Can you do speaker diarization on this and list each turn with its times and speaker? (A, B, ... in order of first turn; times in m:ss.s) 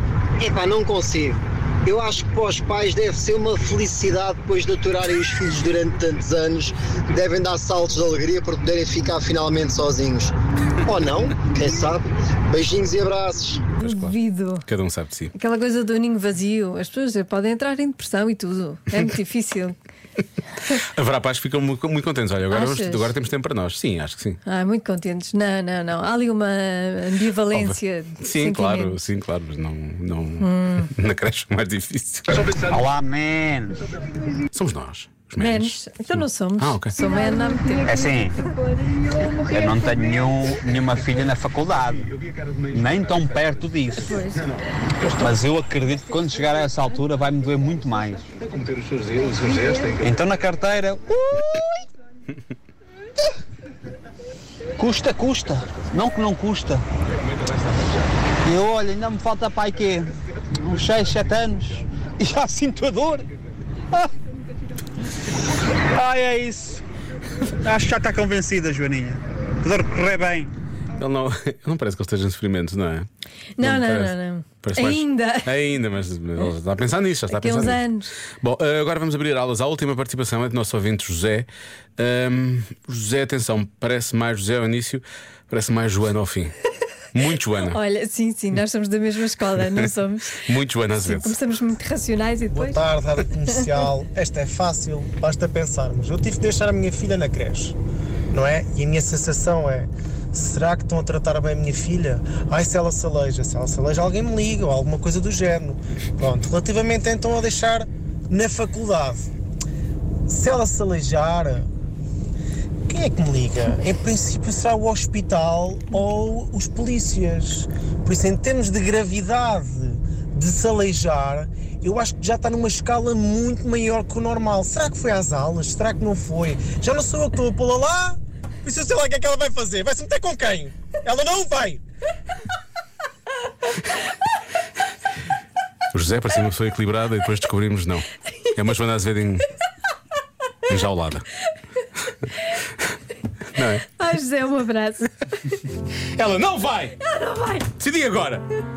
0:00.4-0:13.6 A
0:13.8-0:15.3 B
0:13.8-0:14.6 C
0:15.3-0:19.8 C
0:20.8-0:24.4 B
0:22.5-0:23.1 C
0:24.4-0:29.0 C
0:27.5-0:32.5 B
0:30.4-0:30.9 C
0:32.6-0:33.8 D
0:34.5-0:36.9 B
0:35.4-0:38.0 C
0:37.8-0:38.4 D
0:39.4-0:42.1 D
0:42.7-0:44.4 D
0:45.1-0:48.4 D
0:48.7-0:49.8 B
0:49.9-0:51.8 D
0:54.8-0:56.8 D
0:58.4-1:03.3 D
1:05.7-1:06.8 D
1:07.6-1:10.5 D
1:11.0-1:13.1 B
1:13.6-1:15.6 C
1:13.6-1:17.8 B
1:17.3-1:18.1 C
1:18.4-1:26.5 B
1:27.1-1:27.8 B
1:27.6-1:32.9 C
1:30.4-1:31.4 B
1:32.5-1:37.8 E
1:38.3-1:49.3 E
1:50.3-1:51.7 E
1:52.9-2:11.8 E
2:15.9-2:19.5 B
2:20.7-2:21.2 B
2:23.6-2:23.9 B
2:23.9-2:25.6 C
2:26.1-2:27.0 B
2:27.0-2:27.6 C
2:27.8-2:28.4 B